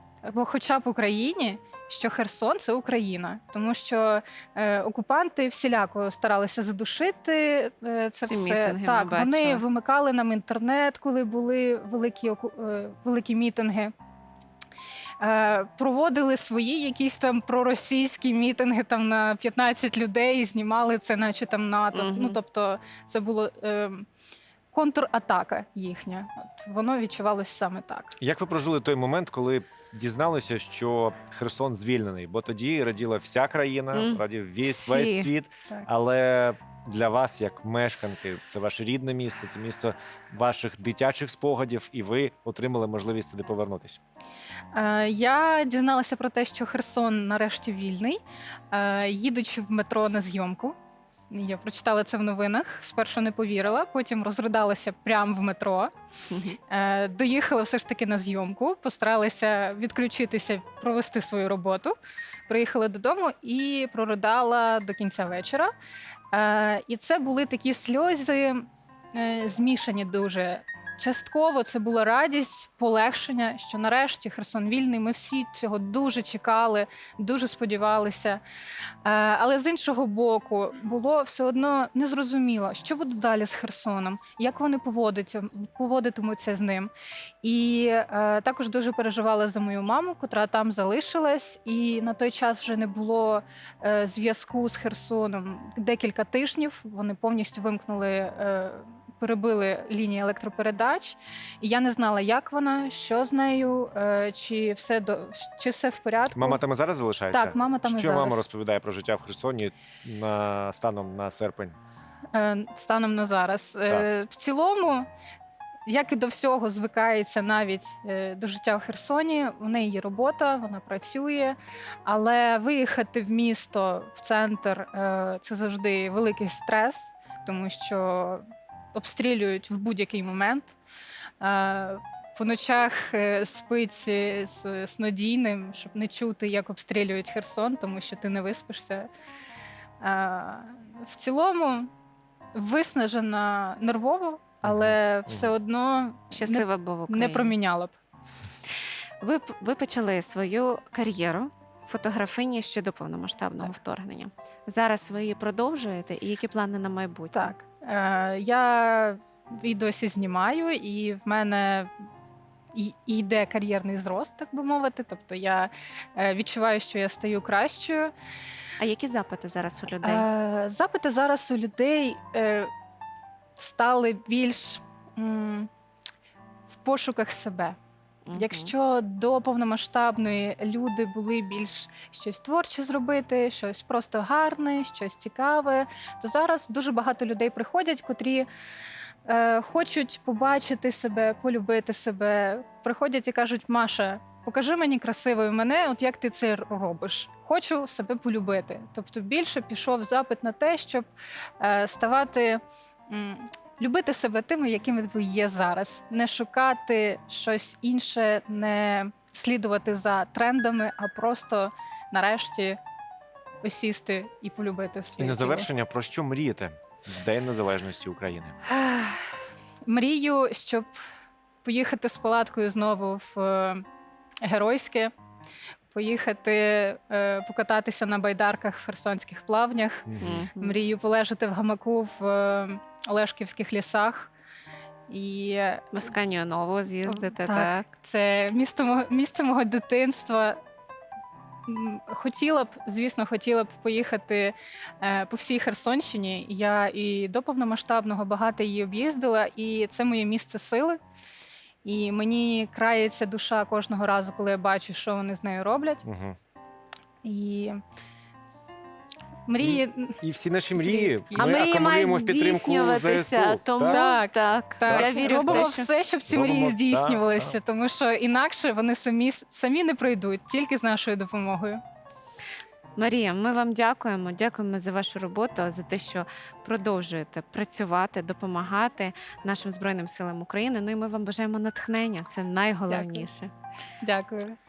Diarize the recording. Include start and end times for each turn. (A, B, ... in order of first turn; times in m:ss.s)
0:00.2-0:13.9 A
0:08.2-0:09.6 B
0:15.2-0:24.1 A
0:21.9-0:22.4 B
0:24.7-0:28.2 A
0:28.2-0:44.0 C
0:33.9-0:35.3 B
0:44.7-0:48.2 A
0:48.7-0:50.8 A
0:51.3-0:55.9 A
0:56.3-0:56.6 B
0:56.7-1:02.0 A
1:02.5-1:05.7 A
1:06.3-1:18.4 A
1:19.0-1:26.9 A
1:27.4-1:46.6 A
1:46.3-1:51.8 C
1:47.3-1:48.4 A
1:52.3-1:55.1 A
1:55.9-2:08.4 A
2:09.0-2:10.8 A
2:11.4-2:19.1 A
2:20.0-2:21.9 A
2:22.6-2:28.0 A
2:24.6-2:25.5 C
2:26.3-2:27.5 B
2:29.2-2:37.5 B
2:37.3-2:41.9 A
2:42.7-2:48.1 A
2:48.8-2:50.3 B
2:50.0-2:52.7 A
2:53.6-2:55.7 A
2:56.7-2:57.8 A
2:58.3-2:58.7 B
2:58.3-3:08.5 A
3:09.3-3:32.8 A
3:33.6-3:35.7 A
3:35.2-3:38.6 C
3:38.7-3:39.3 A
3:39.9-3:41.0 A
3:41.6-3:43.8 A
3:44.4-3:45.1 A
3:45.9-3:54.3 A
3:50.1-3:50.4 C
3:50.2-3:50.8 B
3:55.1-3:56.0 A
3:55.9-3:57.8 B
3:57.1-4:00.6 A
4:01.7-4:11.0 A
4:11.8-4:16.0 A
4:16.0-4:16.4 C
4:17.2-4:17.8 A
4:19.5-4:20.2 A
4:19.6-4:24.1 C
4:20.8-4:21.5 A
4:21.4-4:25.9 B
4:23.9-4:31.8 A
4:24.9-4:25.7 C
4:26.3-4:27.5 C
4:33.0-4:43.5 B
4:42.9-4:43.3 A
4:44.0-4:44.6 A